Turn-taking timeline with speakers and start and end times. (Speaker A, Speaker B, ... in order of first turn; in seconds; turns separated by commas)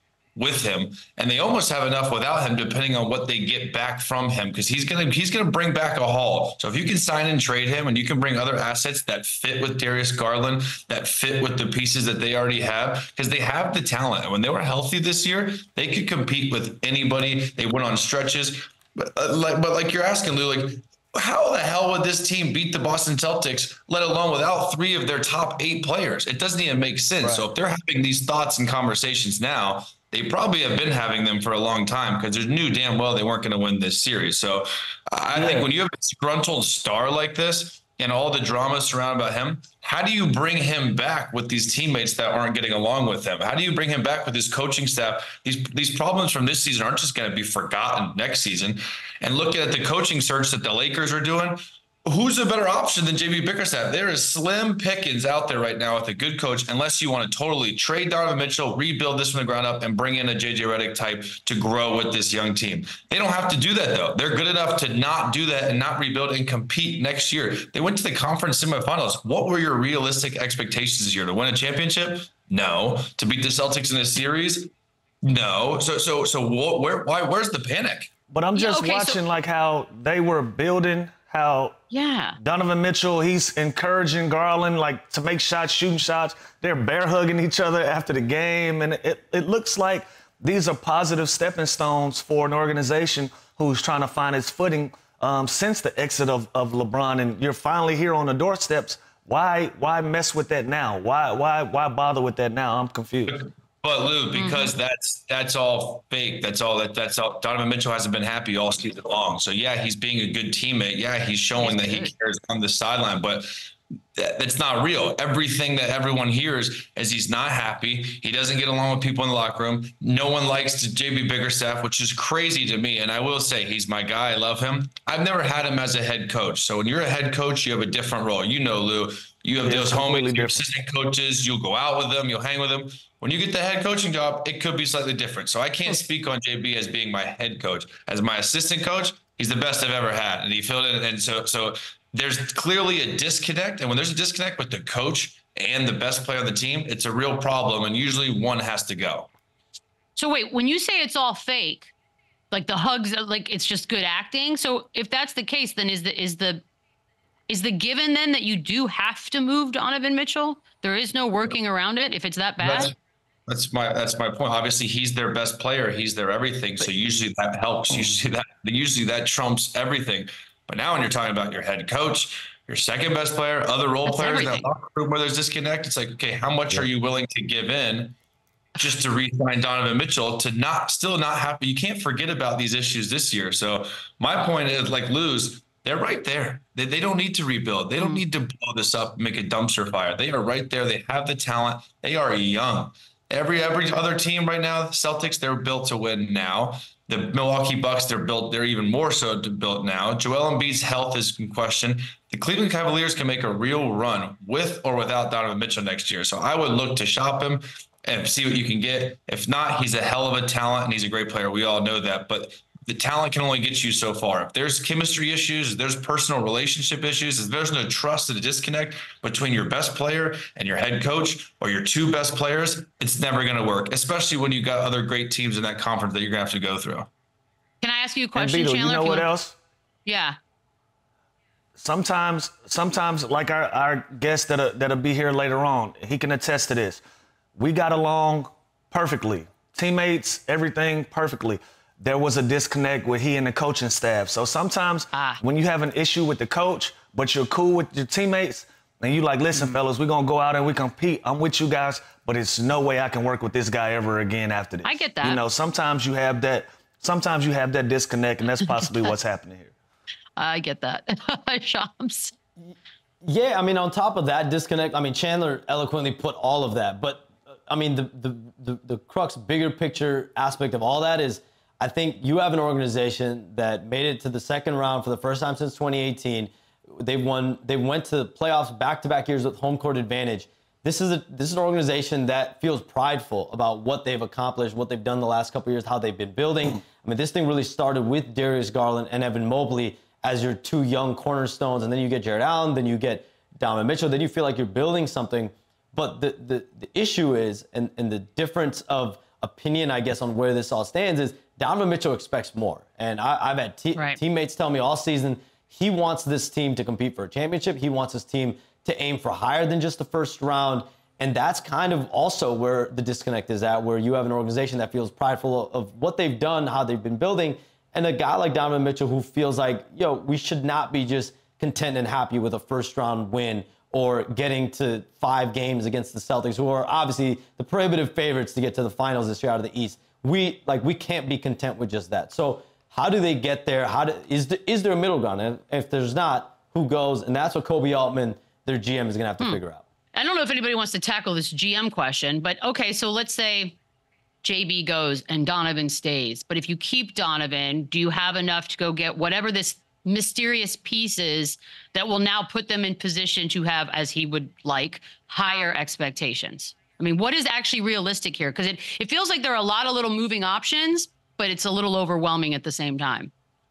Speaker A: 0.3-74.7, Speaker B: 35.3-35.7, Speaker A: 75.2-78.1, Speaker B: 78.3-81.8, Speaker C: 78.5-79.2, Speaker C: 81.9-82.4, Speaker B: 82.4-103.4, Speaker A: 103.3-113.5, Speaker C: 104.3-104.7, Speaker C: 111.6-112.1, Speaker A: 114.2-149.3, Speaker B: 129.6-130.6, Speaker C: 150.2-151.9, Speaker C: 152.5-156.6, Speaker C: 157.5-162.9, Speaker A: 162.6-162.9, Speaker A: 163.5-178.1, Speaker C: 174.1-174.7, Speaker A: 178.8-227.1, Speaker C: 188.0-188.2, Speaker C: 227.8-229.3, Speaker B: 228.3-229.6, Speaker C: 230.0-230.4, Speaker B: 231.8-237.0, Speaker B: 237.6-259.7, Speaker C: 245.1-245.4, Speaker C: 254.8-255.4, Speaker C: 260.4-262.3, Speaker D: 262.6-339.8, Speaker C: 340.1-343.8, Speaker C: 344.4-363.3